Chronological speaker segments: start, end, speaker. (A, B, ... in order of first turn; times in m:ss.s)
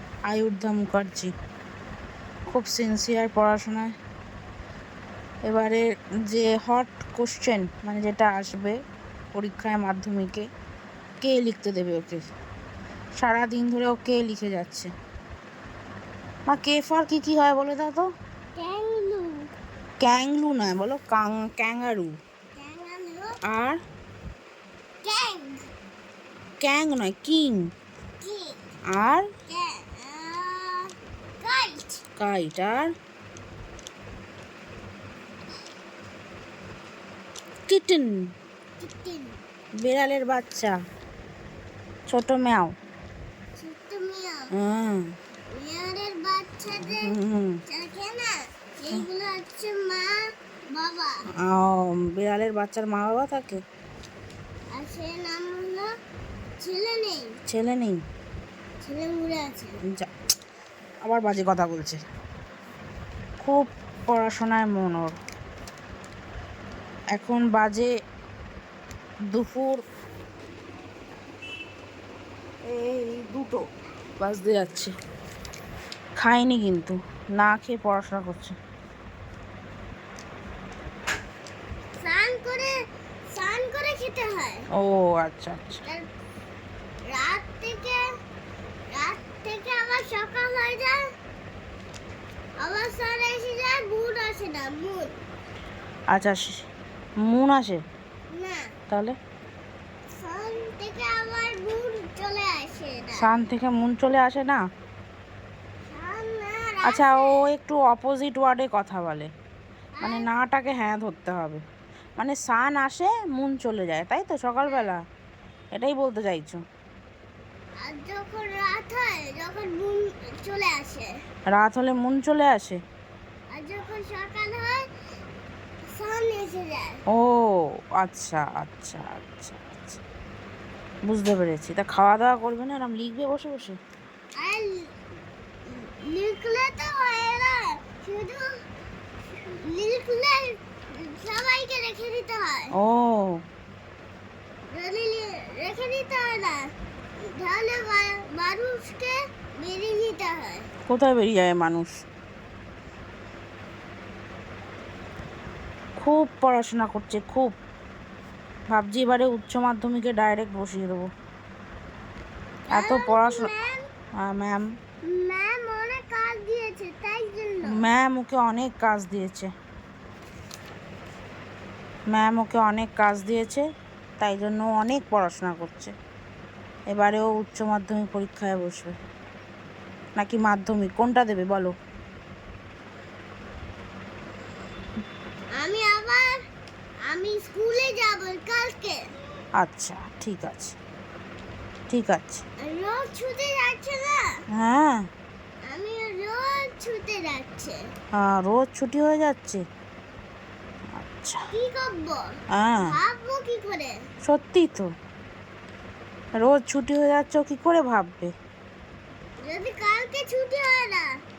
0:00.3-0:01.3 A
0:02.5-0:03.9 A
0:05.5-0:08.8 A
0:09.4-0:10.5 A
0:11.2-0:12.2 A
0:13.2-0:14.9 A
0:16.5-0:18.1 A
0:18.6-0:19.5 B
0:20.0-0:22.2 A
0:22.6-0:23.4 B
0:23.4-0:23.8 A
0:25.0-0:25.7 B
0:26.6-0:27.7 A
0:28.2-0:28.6 B
0:28.9-0:29.3 A
0:29.5-0:32.0 B
0:32.2-0:32.9 A
0:37.7-0:38.3 A
0:38.8-0:39.4 B
0:39.8-0:40.8 A
0:42.1-0:42.7 A
0:43.6-0:44.5 B
0:44.5-0:45.1 A
0:45.5-0:47.1 B
0:46.8-0:47.6 A
0:47.7-0:50.2 B
0:50.7-0:51.2 B
0:51.4-0:53.6 A
0:54.7-0:55.9 B
0:56.6-0:57.4 B
0:57.5-0:58.0 A
0:58.8-0:59.8 B
1:01.0-1:02.0 A
1:03.4-1:05.2 A
1:07.1-1:07.9 A
1:09.3-1:09.8 A
1:12.7-1:13.6 A
1:14.2-1:14.9 A
1:16.2-1:18.6 A
1:22.0-1:22.7 B
1:23.3-1:24.6 B
1:24.8-1:25.8 A
1:27.1-1:28.0 B
1:28.9-1:31.0 B
1:32.6-1:35.2 B
1:36.1-1:36.6 A
1:37.2-1:37.8 A
1:38.3-1:38.7 B
1:38.9-1:39.2 A
1:40.2-1:43.3 B
1:43.2-1:44.6 A
1:45.9-1:47.4 B
1:46.8-1:49.3 A
1:50.0-1:50.3 B
1:50.0-1:51.6 A
1:52.2-1:55.0 A
1:55.8-1:56.6 A
1:57.8-2:01.1 B
2:01.5-2:02.8 A
2:03.5-2:04.9 B
2:05.9-2:07.0 B
2:07.1-2:10.0 A
2:11.1-2:13.8 A
2:14.4-2:14.9 B
2:15.6-2:18.5 B
2:19.3-2:22.7 B
2:22.7-2:23.4 A
2:24.7-2:30.7 B
2:30.9-2:31.9 A
2:36.0-2:37.6 A
2:38.7-2:41.1 A
2:42.7-2:43.5 A
2:42.7-2:43.8 B
2:44.2-2:44.7 A
2:45.0-2:47.8 B
2:47.7-2:49.5 A
2:52.1-2:53.7 A
2:54.2-2:55.9 A
2:56.9-2:59.0 A
3:00.2-3:01.7 A
3:05.6-3:06.4 B
3:07.1-3:09.0 B
3:09.6-3:10.8 A
3:11.9-3:12.4 A
3:12.6-3:14.4 B
3:14.5-3:15.0 A
3:15.6-3:17.8 B
3:18.1-3:19.6 A
3:21.0-3:21.5 A
3:21.5-3:22.3 B
3:22.5-3:23.0 A
3:22.8-3:24.0 B
3:24.2-3:24.9 A
3:26.4-3:28.3 A
3:29.4-3:31.1 B